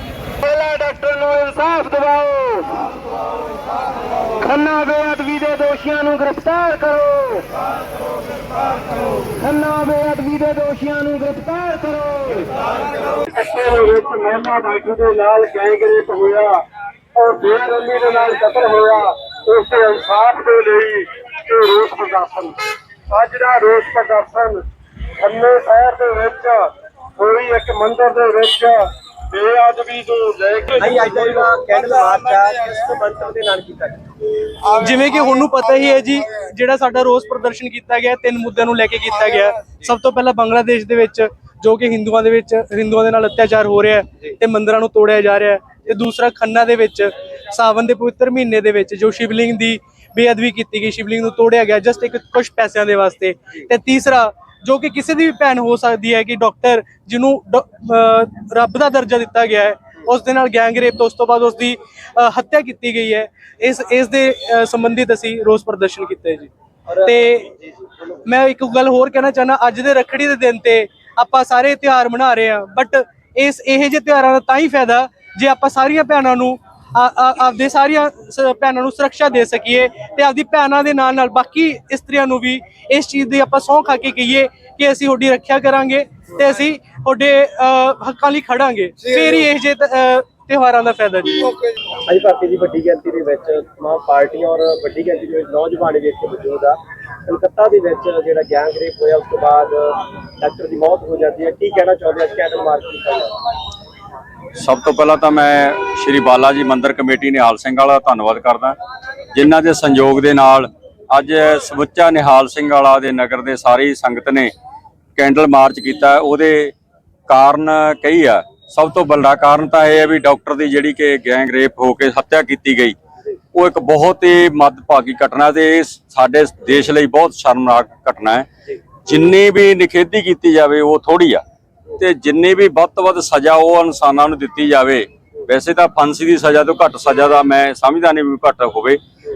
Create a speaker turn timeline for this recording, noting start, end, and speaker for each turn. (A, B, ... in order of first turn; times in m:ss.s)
0:00.4-0:02.9 A
0:04.2-0:07.5 A
0:09.1-0:12.5 A
0:13.3-0:16.6 B
0:17.1-0:22.6 B
0:23.1-0:24.7 B
0:25.2-0:31.2 B
0:30.8-0:34.3 C
0:34.7-1:06.5 D
1:06.9-1:07.9 C
1:07.0-1:07.5 D
1:08.2-1:31.5 D
1:32.0-1:43.4 C
1:44.6-1:48.8 E
1:49.3-1:54.5 E
1:55.2-1:56.7 E
1:57.3-2:03.0 E
2:03.5-2:08.5 E
2:09.0-2:11.4 E
2:12.0-2:19.0 E